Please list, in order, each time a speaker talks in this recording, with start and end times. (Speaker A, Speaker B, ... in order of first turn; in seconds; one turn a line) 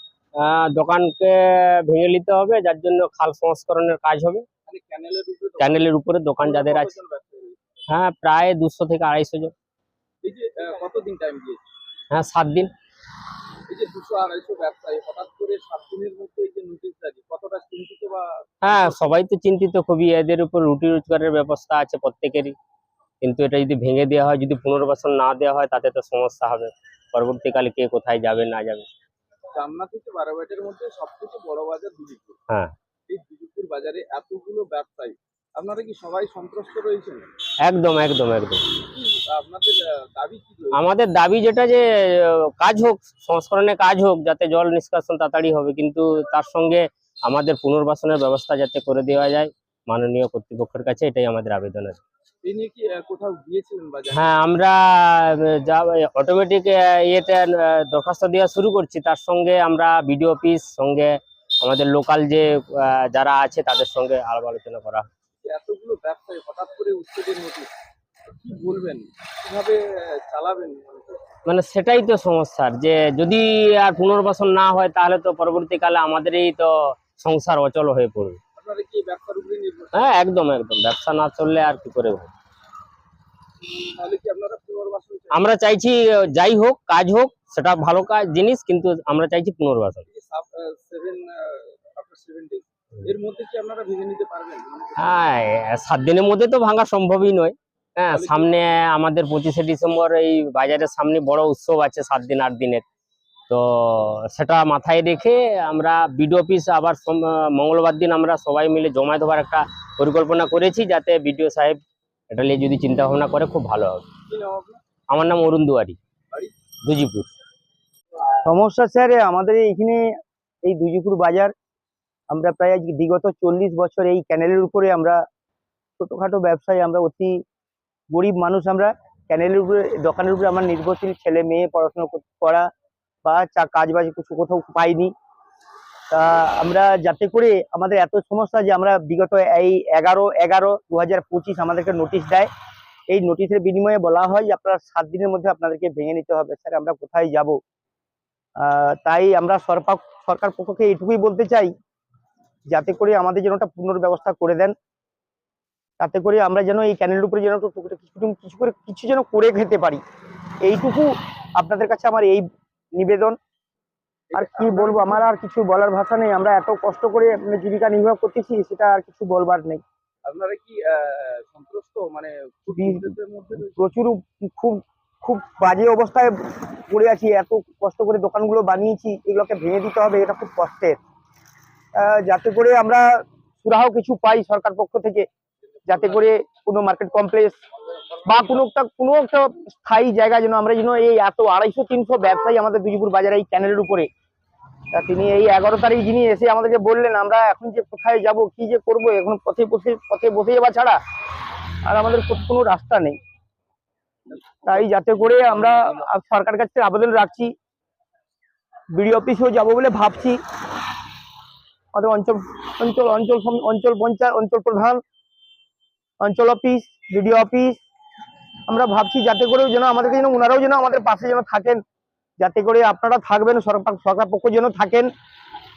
Speaker A: 0.4-4.5
Speaker B: 4.7-7.6
Speaker A: 5.6-6.9
Speaker A: 7.9-9.5
Speaker B: 10.2-11.6
Speaker A: 12.1-12.7
Speaker B: 13.7-19.0
Speaker A: 18.6-22.5
Speaker A: 23.2-28.9
Speaker B: 29.5-32.4
Speaker B: 33.1-37.3
Speaker A: 37.6-38.6
Speaker B: 38.9-40.8
Speaker A: 40.7-52.0
Speaker B: 52.4-54.4
Speaker A: 54.1-65.1
Speaker B: 65.4-67.7
Speaker B: 68.3-71.3
Speaker A: 71.5-78.4
Speaker B: 78.6-80.2
Speaker A: 79.9-82.3
Speaker B: 83.9-85.5
Speaker A: 85.3-90.0
Speaker B: 90.1-95.3
Speaker A: 95.0-102.8
Speaker B: 98.1-98.6
Speaker A: 103.5-111.8
Speaker A: 112.3-114.1
Speaker B: 114.3-114.8
Speaker A: 115.1-116.0
Speaker A: 116.8-117.3
Speaker C: 118.4-120.1
Speaker C: 120.6-121.5
Speaker C: 122.3-125.2
Speaker C: 126.0-127.4
Speaker C: 128.1-132.7
Speaker C: 133.2-135.1
Speaker C: 136.1-142.5
Speaker C: 143.1-147.6
Speaker C: 148.6-151.7
Speaker C: 152.7-154.8
Speaker C: 156.0-160.0
Speaker C: 160.6-163.4
Speaker B: 164.3-165.2
Speaker C: 164.3-169.8
Speaker B: 170.2-173.9
Speaker C: 172.8-173.1
Speaker C: 173.8-181.0
Speaker C: 181.9-183.0
Speaker C: 183.6-185.3
Speaker C: 185.9-187.6
Speaker C: 188.2-194.1
Speaker C: 194.9-201.0
Speaker C: 201.9-203.2
Speaker B: 204.3-206.0
Speaker C: 204.7-207.5
Speaker C: 208.9-210.4
Speaker C: 211.9-215.0
Speaker C: 216.2-217.8
Speaker C: 218.7-221.8
Speaker C: 222.4-225.1